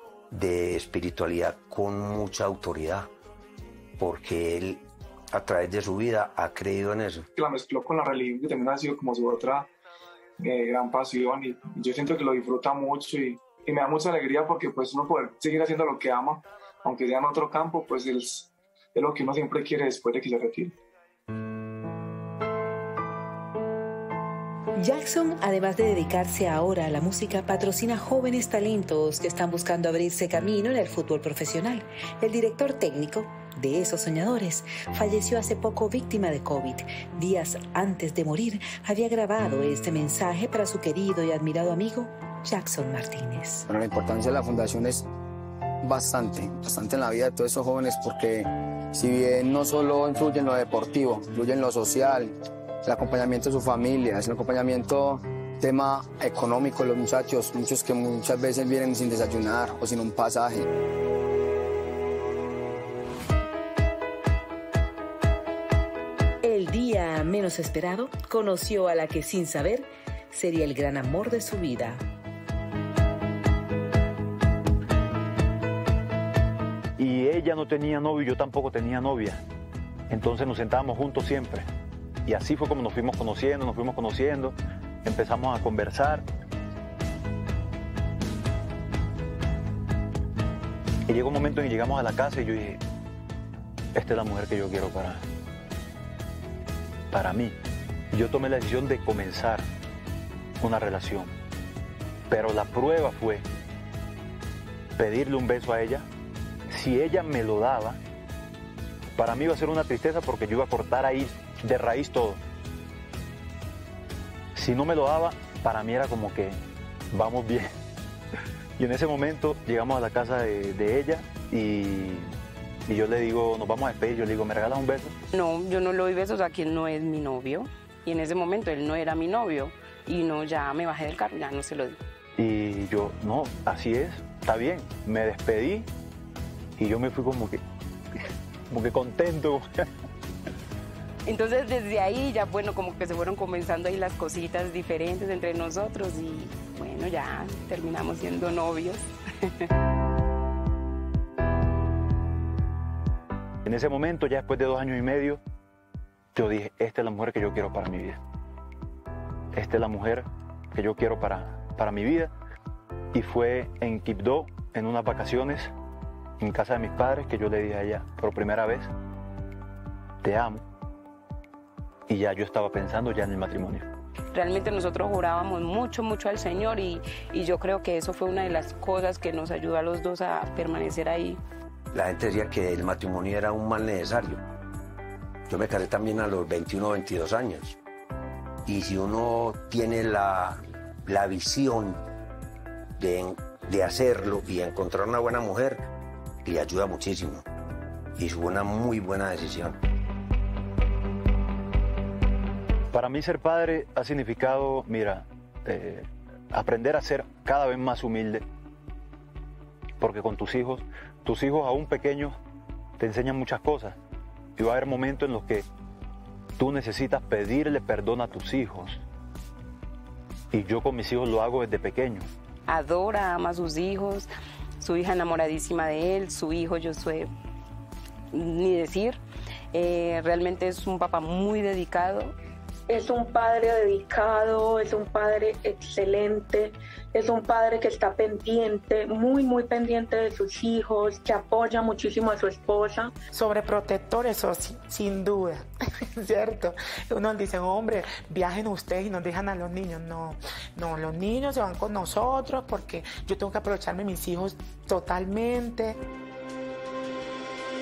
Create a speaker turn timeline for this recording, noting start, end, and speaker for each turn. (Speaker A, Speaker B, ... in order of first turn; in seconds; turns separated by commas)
Speaker A: 0.3-3.1, Speaker A: 4.0-7.3, Speaker B: 7.4-9.7, Speaker B: 10.4-20.8, Speaker C: 24.8-43.7, Speaker D: 43.7-45.1, Speaker D: 45.8-52.4, Speaker D: 52.9-60.7, Speaker C: 66.4-72.0, Speaker E: 77.0-79.4, Speaker E: 80.1-81.7, Speaker E: 82.3-86.2, Speaker E: 91.1-92.8, Speaker E: 94.0-95.3, Speaker E: 97.1-97.6, Speaker E: 98.1-99.7, Speaker E: 100.6-101.3, Speaker E: 102.3-103.5, Speaker E: 105.0-106.1, Speaker E: 106.7-108.0, Speaker E: 109.2-112.4, Speaker E: 114.5-116.6, Speaker E: 117.1-117.7, Speaker E: 118.8-122.3, Speaker E: 122.9-125.2, Speaker F: 125.3-132.0, Speaker E: 132.4-135.9, Speaker E: 136.8-137.6, Speaker E: 138.7-139.9, Speaker F: 141.3-149.1, Speaker E: 153.7-155.4, Speaker E: 156.3-158.2, Speaker E: 159.5-162.3, Speaker E: 163.1-165.7, Speaker E: 166.4-168.9, Speaker E: 170.2-170.6, Speaker E: 172.1-173.9, Speaker F: 174.3-181.4, Speaker A: 181.9-184.4, Speaker A: 185.5-187.8, Speaker A: 188.7-192.0, Speaker A: 193.0-195.9, Speaker A: 196.4-197.5, Speaker A: 198.2-199.8, Speaker E: 202.9-208.4, Speaker E: 210.0-212.4, Speaker E: 213.0-214.0, Speaker E: 214.6-215.7, Speaker E: 216.6-219.0, Speaker E: 220.5-222.3, Speaker F: 222.7-227.3, Speaker F: 228.3-229.2, Speaker F: 229.7-232.3, Speaker G: 232.9-243.1, Speaker H: 243.3-245.7, Speaker H: 246.2-256.0